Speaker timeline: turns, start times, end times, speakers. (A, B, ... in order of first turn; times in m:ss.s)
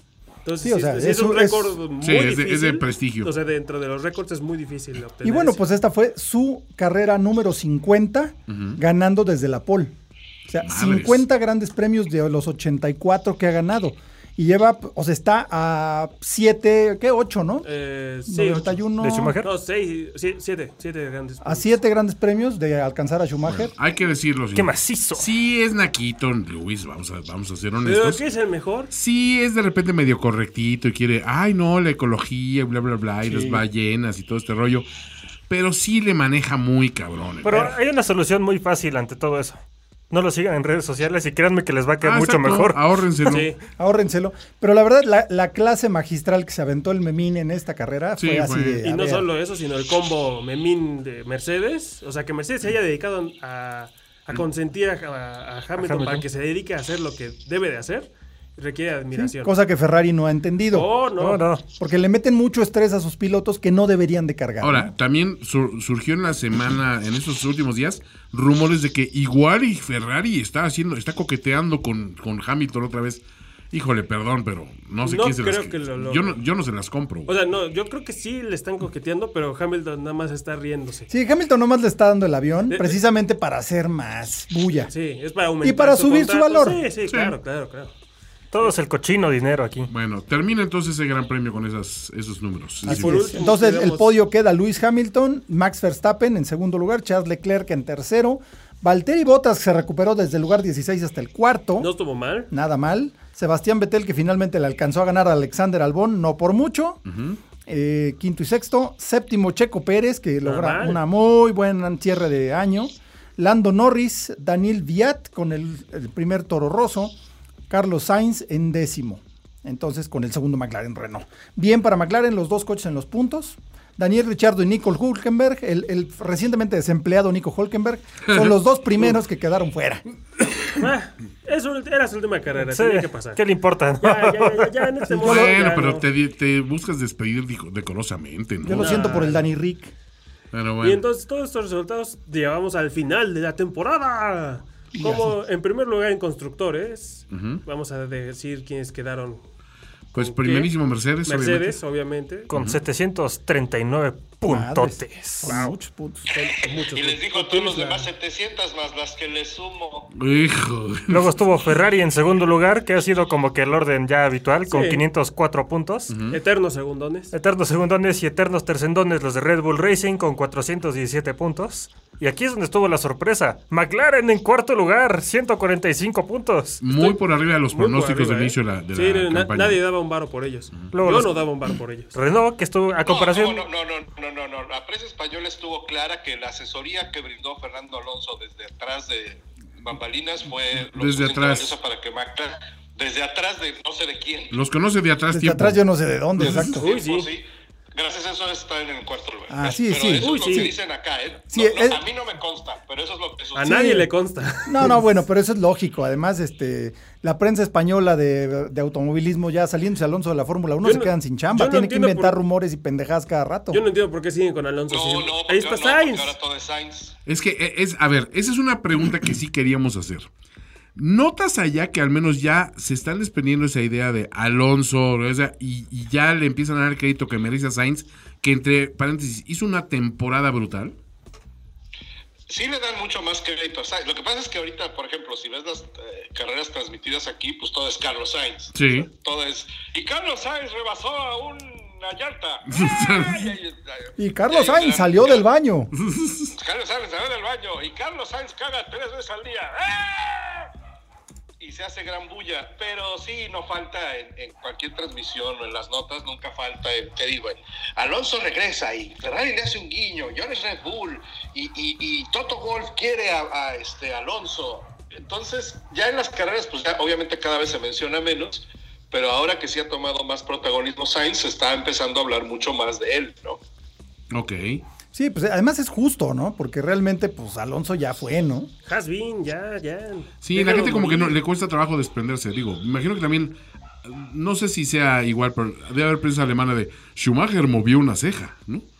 0:00.4-0:05.6 A
0:00.6-0:01.8 B
0:02.0-0:03.3 C
0:05.2-0:09.9 B
0:08.5-0:08.8 C
0:10.5-0:17.7 B
0:10.6-0:11.2 C
0:17.6-0:18.8 A
0:18.3-0:19.4 B
0:19.0-0:19.5 D
0:19.4-0:21.8 A
0:21.4-0:23.7 B
0:23.4-0:28.2 C
0:24.5-0:25.3 D
0:27.8-0:28.9 A
0:28.9-0:34.8 C
0:33.2-0:33.6 B
0:35.5-0:37.7 C
0:37.4-0:43.3 D
0:42.0-0:43.5 C
0:43.3-0:43.6 A
0:43.8-0:49.2 B
0:48.2-0:48.8 C
0:48.8-0:59.5 A
0:55.8-0:56.2 D
0:59.1-1:00.9 B
1:00.7-1:01.5 A
1:01.2-1:01.6 D
1:01.8-1:04.9 B
1:04.6-1:17.3 C
1:15.0-1:16.4 A
1:17.3-1:21.1 A
1:21.1-1:24.9 B
1:22.7-1:23.0 A
1:24.9-1:27.9 A
1:25.6-1:26.8 B
1:27.1-1:27.3 C
1:28.5-1:29.9 D
1:29.9-1:33.3 C
1:32.8-1:41.9 B
1:32.8-1:34.1 A
1:41.8-1:42.5 A
1:42.5-1:47.0 B
1:47.0-1:47.4 C
1:47.7-1:57.1 B
1:50.4-1:51.0 A
1:57.7-2:10.0 B
2:08.2-2:08.5 C
2:10.7-2:13.4 A
2:12.6-2:14.9 D
2:14.0-2:16.1 A
2:15.1-2:15.6 B
2:15.2-2:19.0 C
2:18.6-2:19.9 B
2:18.7-2:19.5 A
2:20.5-2:21.0 C
2:20.8-2:29.4 A
2:24.9-2:25.3 B
2:27.3-2:27.6 C
2:30.1-2:30.7 A
2:30.1-2:31.8 C
2:31.2-2:32.5 A
2:32.5-2:35.7 D
2:32.5-2:32.8 C
2:34.4-2:36.3 B
2:36.3-2:38.1 A
2:36.9-2:40.1 E
2:40.1-2:41.4 C
2:41.1-2:46.2 D
2:44.7-2:45.0 A
2:46.1-2:46.4 C
2:46.3-2:47.3 A
2:47.3-2:56.8 D
2:56.8-2:59.8 C
2:56.9-2:57.2 A
2:57.7-3:02.1 A
3:00.9-3:01.4 D
3:02.1-3:03.6 D
3:03.0-3:14.5 E
3:10.8-3:11.8 C
3:14.5-3:15.8 C
3:15.3-3:16.8 B
3:16.4-3:16.7 C
3:16.5-3:17.3 A
3:16.7-3:23.9 E
3:19.5-3:20.7 B
3:20.2-3:20.7 A
3:21.5-3:22.0 B
3:23.5-3:25.0 A
3:23.6-3:24.1 B
3:24.6-3:33.8 B
3:30.8-3:32.4 A
3:33.7-3:36.4 A
3:34.9-3:37.1 E
3:37.2-3:40.3 C
3:41.0-3:50.9 C
3:52.5-4:05.4 E
3:58.7-3:59.1 C
4:02.7-4:03.5 C
4:04.2-4:05.9 B
4:05.9-4:06.5 C
4:06.5-4:10.7 E
4:11.6-4:33.6 E
4:34.3-4:34.8 C
4:35.1-4:38.7 B
4:38.8-4:41.4 A
4:40.4-4:48.8 C